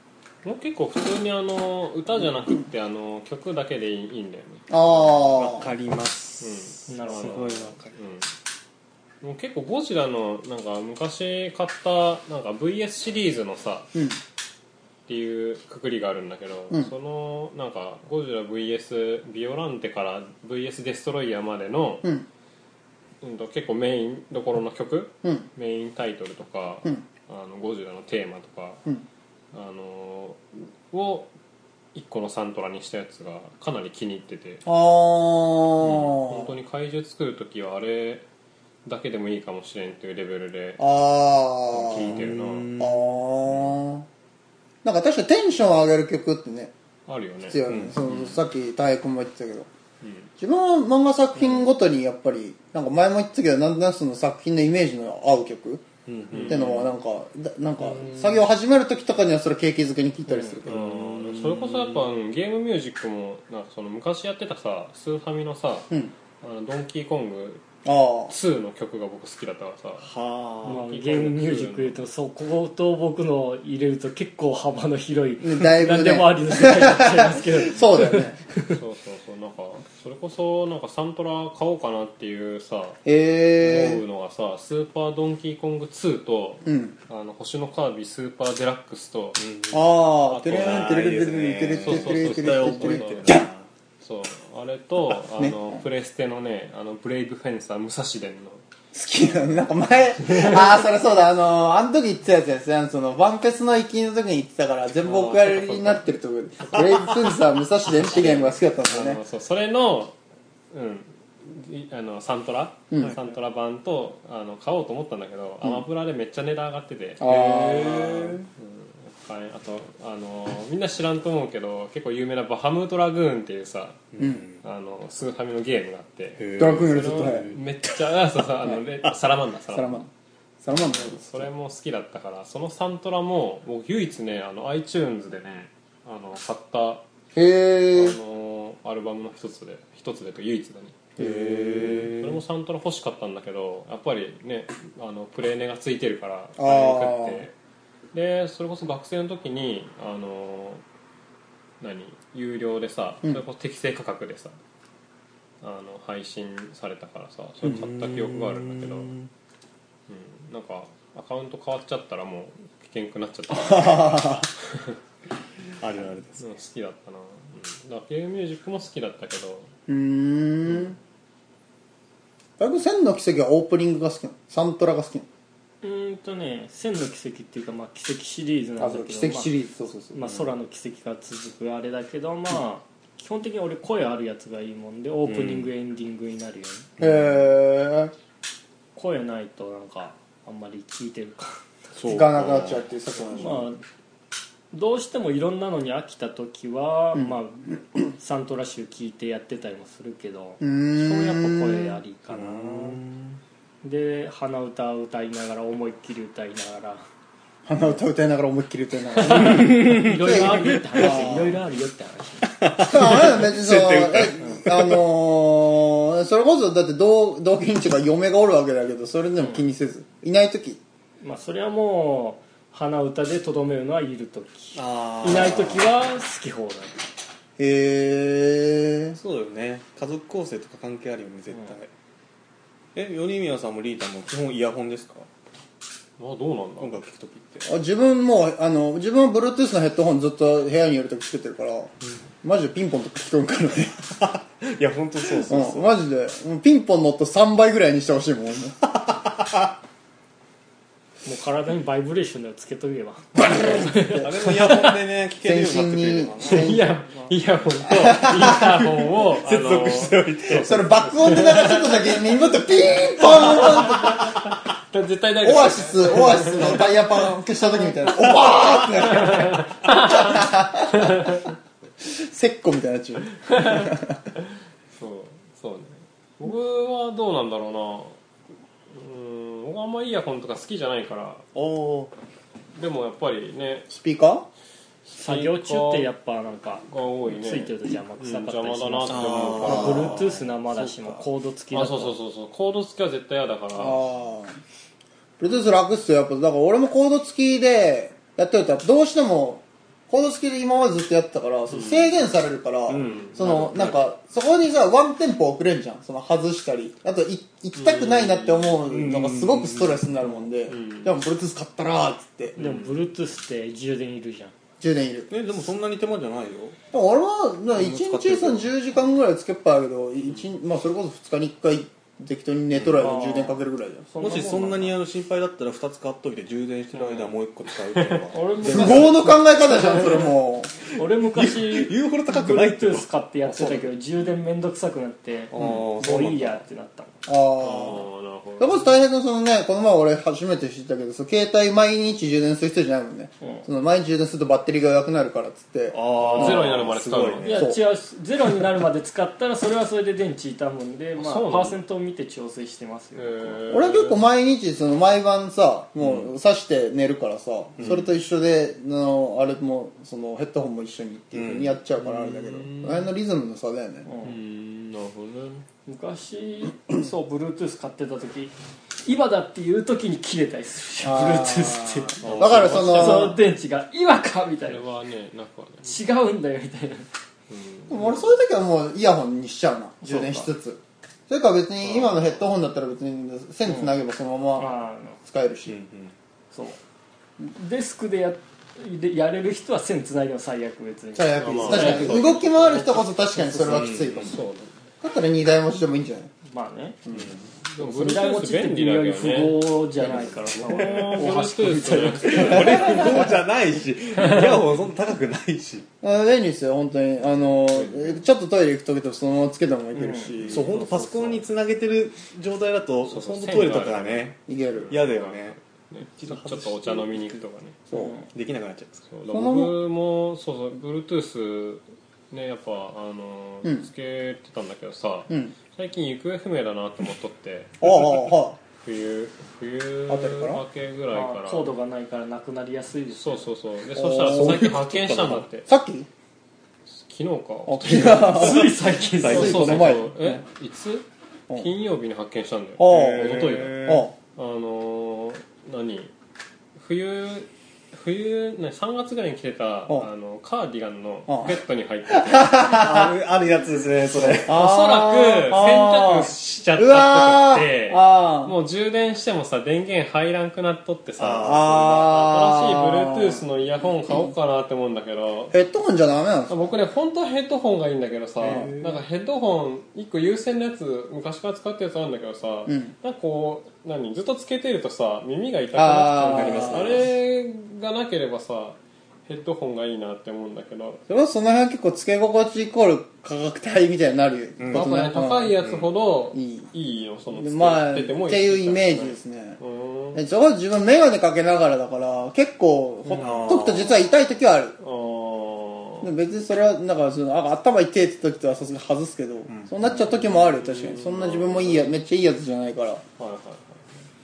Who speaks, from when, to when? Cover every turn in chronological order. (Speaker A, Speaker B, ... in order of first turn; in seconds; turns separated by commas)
Speaker A: 0.4-5.3, Speaker B: 4.7-5.7, Speaker C: 5.3-7.9, Speaker A: 6.4-8.3, Speaker D: 6.9-7.5, Speaker A: 9.2-13.9, Speaker B: 13.9-14.2, Speaker A: 15.1-22.1, Speaker A: 23.2-28.8, Speaker A: 29.5-31.3, Speaker A: 31.9-34.6, Speaker B: 34.6-36.5, Speaker A: 35.8-38.2, Speaker A: 38.8-40.9, Speaker B: 40.8-42.2, Speaker A: 41.7-42.7, Speaker C: 41.8-43.2, Speaker B: 42.8-44.1, Speaker B: 44.8-46.7, Speaker A: 47.1-47.6, Speaker B: 47.5-49.7, Speaker C: 47.7-48.4, Speaker A: 50.0-50.3, Speaker B: 50.4-55.8, Speaker C: 56.0-56.8, Speaker A: 56.3-56.9, Speaker B: 56.4-60.8, Speaker A: 60.6-65.9, Speaker C: 60.6-62.1, Speaker A: 66.4-67.6, Speaker B: 67.8-68.3, Speaker A: 68.3-70.1, Speaker C: 70.0-70.8, Speaker A: 70.6-72.0, Speaker D: 70.6-78.8, Speaker B: 75.4-78.4, Speaker A: 78.6-83.0, Speaker B: 83.0-84.0, Speaker A: 83.5-89.4, Speaker B: 86.6-86.9, Speaker C: 89.4-89.8, Speaker B: 89.7-93.5, Speaker A: 90.2-93.4, Speaker C: 90.4-93.7, Speaker A: 94.0-98.6, Speaker B: 95.4-95.7, Speaker B: 98.9-109.2, Speaker A: 100.3-100.6, Speaker A: 105.0-106.0, Speaker A: 108.0-110.1, Speaker A: 110.7-130.0, Speaker B: 112.9-113.2, Speaker B: 117.2-118.3, Speaker C: 117.2-118.5, Speaker C: 124.1-124.6, Speaker C: 126.4-127.6, Speaker B: 126.6-127.5, Speaker B: 129.7-130.1, Speaker B: 130.6-131.5, Speaker A: 130.7-137.0, Speaker B: 137.3-138.2, Speaker A: 137.9-141.1, Speaker C: 141.2-142.4, Speaker B: 141.2-142.1, Speaker A: 141.8-147.5, Speaker B: 146.6-147.4, Speaker A: 148.1-150.8, Speaker A: 151.8-154.6, Speaker A: 155.6-159.1, Speaker C: 157.7-159.3, Speaker A: 160.1-164.9, Speaker B: 163.5-164.5, Speaker C: 165.8-166.4, Speaker A: 166.4-169.7, Speaker B: 169.9-171.0, Speaker B: 172.6-175.3, Speaker D: 175.8-179.5, Speaker B: 178.8-180.2, Speaker D: 180.1-186.9, Speaker C: 185.2-185.7, Speaker B: 187.0-188.1, Speaker D: 188.9-191.6, Speaker C: 191.9-192.9, Speaker B: 192.1-193.7, Speaker D: 193.4-193.8, Speaker D: 194.7-203.0, Speaker B: 200.6-202.0, Speaker C: 202.3-203.4, Speaker D: 203.8-207.0, Speaker B: 207.7-211.5, Speaker D: 209.2-212.6, Speaker C: 209.4-211.5, Speaker C: 212.6-215.0, Speaker B: 212.8-220.8, Speaker D: 221.2-227.0, Speaker C: 224.7-225.8, Speaker B: 227.6-229.2, Speaker C: 229.1-231.9, Speaker C: 232.9-235.3, Speaker A: 236.2-237.0, Speaker C: 236.8-237.7, Speaker B: 237.7-241.9, Speaker B: 242.4-244.2, Speaker C: 244.2-245.9, Speaker B: 245.4-248.8, Speaker C: 249.0-249.5, Speaker D: 251.2-254.9, Speaker B: 253.4-254.2, Speaker C: 254.0-256.8, Speaker B: 255.4-256.9, Speaker A: 256.4-262.0, Speaker C: 258.1-260.8, Speaker B: 260.5-264.4, Speaker A: 263.3-264.4, Speaker A: 264.9-266.9, Speaker B: 265.4-271.3, Speaker A: 269.1-270.4, Speaker A: 271.0-271.4, Speaker B: 272.0-274.2, Speaker A: 273.4-273.9, Speaker A: 274.9-278.2, Speaker A: 278.9-281.4, Speaker C: 281.5-282.1, Speaker A: 282.8-283.9, Speaker B: 283.9-284.5, Speaker A: 285.1-286.1, Speaker D: 285.1-292.1, Speaker A: 286.9-290.3, Speaker C: 289.1-291.2, Speaker A: 291.7-294.0, Speaker B: 293.7-294.6, Speaker B: 295.4-312.6, Speaker A: 301.7-302.1, Speaker C: 302.9-304.0, Speaker A: 303.0-303.9, Speaker A: 307.7-308.8, Speaker C: 308.9-310.1, Speaker A: 310.6-311.1, Speaker A: 312.6-312.9, Speaker D: 312.6-314.5, Speaker B: 314.8-315.3, Speaker C: 315.3-316.8, Speaker B: 316.9-324.1, Speaker C: 317.7-318.6, Speaker C: 322.7-323.1, Speaker D: 323.0-325.0, Speaker C: 324.2-329.3, Speaker A: 327.0-327.3, Speaker A: 327.9-328.2, Speaker D: 328.3-330.2, Speaker B: 328.6-330.7, Speaker D: 330.9-337.1, Speaker C: 331.2-333.8, Speaker C: 335.5-336.6, Speaker B: 335.6-335.8, Speaker B: 337.2-338.1, Speaker A: 337.6-338.9, Speaker B: 338.6-346.7, Speaker D: 343.4-343.6, Speaker C: 345.9-347.7, Speaker A: 346.1-347.5, Speaker D: 347.4-353.6, Speaker B: 347.5-347.8, Speaker A: 351.2-351.8, Speaker A: 353.1-354.2, Speaker B: 353.7-364.1, Speaker C: 356.0-356.3, Speaker C: 357.8-358.1, Speaker C: 361.3-361.8, Speaker A: 362.0-363.1, Speaker D: 364.1-364.4, Speaker A: 364.2-365.6, Speaker D: 365.9-374.8, Speaker B: 371.0-373.4, Speaker C: 372.2-372.9, Speaker A: 372.2-373.4, Speaker A: 374.6-375.9, Speaker D: 375.8-377.1, Speaker A: 377.5-378.3, Speaker B: 377.9-385.8, Speaker D: 380.0-380.5, Speaker A: 381.8-382.4, Speaker D: 383.6-383.9, Speaker D: 384.6-385.2, Speaker C: 385.7-386.1, Speaker D: 386.5-386.8, Speaker D: 387.4-392.3, Speaker B: 391.1-394.4, Speaker A: 391.4-393.0, Speaker D: 393.3-393.8, Speaker C: 393.6-394.4, Speaker A: 394.1-394.7, Speaker B: 395.0-396.3, Speaker D: 396.5-397.0, Speaker B: 397.1-397.3, Speaker C: 397.1-397.4, Speaker A: 397.7-399.7, Speaker D: 397.8-403.0, Speaker B: 400.0-400.7, Speaker C: 400.4-400.9, Speaker A: 400.6-403.3, Speaker C: 401.9-405.9, Speaker B: 402.8-403.3, Speaker B: 406.0-410.7, Speaker A: 407.6-408.2, Speaker D: 409.9-410.3, Speaker C: 410.4-414.4, Speaker A: 410.4-411.4, Speaker A: 413.0-417.8, Speaker B: 414.5-415.0, Speaker C: 414.9-415.6, Speaker C: 416.2-417.4, Speaker B: 417.9-418.1, Speaker D: 417.9-418.2, Speaker C: 418.3-419.1, Speaker A: 419.1-431.7, Speaker B: 419.3-419.8, Speaker B: 427.8-428.6, Speaker B: 430.1-430.6, Speaker D: 431.1-433.5, Speaker A: 433.1-435.7, Speaker B: 433.9-434.6, Speaker C: 434.2-435.5, Speaker B: 435.7-436.1, Speaker A: 436.9-446.1, Speaker B: 437.7-440.4, Speaker D: 438.1-439.8, Speaker C: 439.2-439.9, Speaker B: 442.8-444.1, Speaker C: 442.9-444.1, Speaker A: 446.8-452.6, Speaker B: 451.3-451.6, Speaker B: 452.1-453.1, Speaker C: 452.7-454.5, Speaker A: 454.2-465.6, Speaker B: 454.4-458.5, Speaker C: 461.2-461.9, Speaker B: 461.4-463.4, Speaker B: 465.5-466.7, Speaker A: 466.5-481.0, Speaker C: 468.4-469.0, Speaker B: 472.7-472.9, Speaker B: 475.7-477.0, Speaker C: 476.2-477.1, Speaker B: 481.1-485.6, Speaker C: 484.6-484.9, Speaker A: 484.7-490.2, Speaker C: 485.6-485.9, Speaker B: 486.3-486.7, Speaker B: 487.3-489.6, Speaker B: 490.1-494.8, Speaker C: 493.2-494.0, Speaker A: 494.8-496.1, Speaker B: 496.0-503.0, Speaker A: 499.9-501.9, Speaker A: 503.2-503.9